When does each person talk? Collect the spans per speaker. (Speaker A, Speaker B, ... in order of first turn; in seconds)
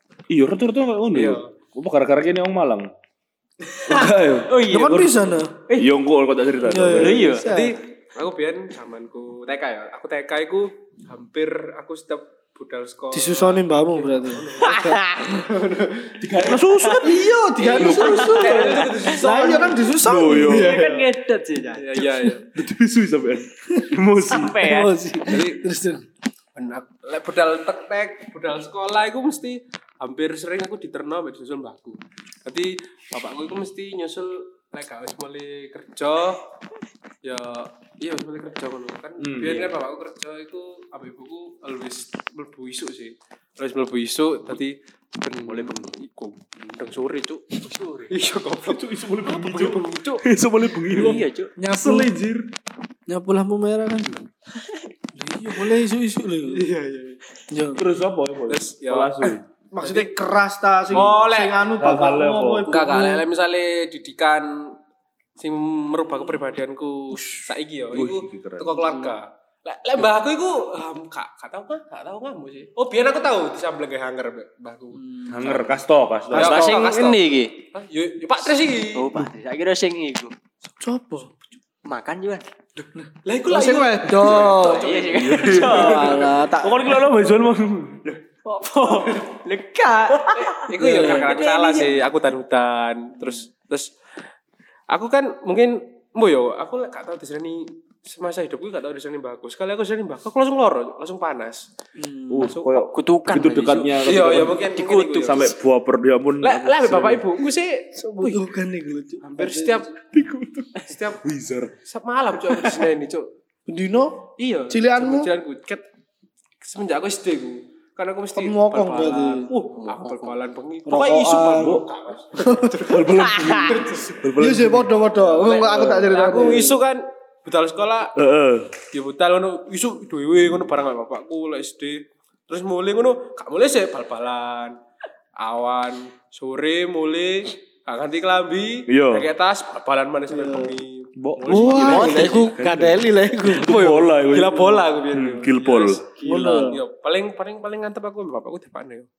Speaker A: 0.3-2.9, 3.9-7.3, 16.2-18.3, 19.9-20.9, 22.5-24.8, 39.2-39.7, 48.7-51.2, 51.8-52.5, 57.8-59.4, 60.9-62.6, 67.9-68.9, 75.3-76.7, 85.2-88.1, 102.3-104.7, 105.2-107.2, 110.1-111.7, 121.0-121.9, 122.9-124.9, 128.2-128.7, 138.9-139.3, 141.2-146.0
Speaker B: 1.1-1.5, 7.4-16.5, 17.6-19.9, 21.7-22.5, 25.3-25.6, 26.6-36.5, 37.2-50.3, 56.5-57.2, 58.5-60.1, 60.9-61.5, 62.7-64.8, 65.4-75.0, 76.3-79.1, 82.8-85.3, 90.4-93.9, 94.9-101.7, 102.4-102.8, 104.0-105.6, 106.4-108.4, 109.2-109.9, 110.8-111.2, 111.8-113.3, 114.4-115.9, 116.6-124.1, 125.3-128.1, 128.9-134.8, 135.4-142.5, 143.5-149.1
Speaker C: 3.9-5.1, 6.9-7.5, 14.6-15.5, 17.8-19.2, 20.3-22.3, 24.3-25.4, 50.9-51.5, 76.3-77.6, 78.9-80.3, 81.8-82.5, 84.3-86.3, 88.5-91.9, 102.9-105.5, 119.7-120.3, 123.2-123.9, 146.2-146.8
Speaker D: 4.7-5.5, 6.6-7.8, 13.1-15.0, 17.0-20.9, 24.6-26.1, 51.0-52.1, 53.1-54.2, 55.1-56.7, 57.5-57.8, 59.7-63.2, 75.2-75.7, 80.8-81.4, 83.5-84.9, 85.5-87.0, 90.8-91.2, 102.0-102.5, 108.0-109.9, 113.7-115.3, 118.4-119.5, 120.9-121.8, 122.4-122.9, 124.4-126.8, 140.3-140.8, 141.5-143.8, 146.3-146.8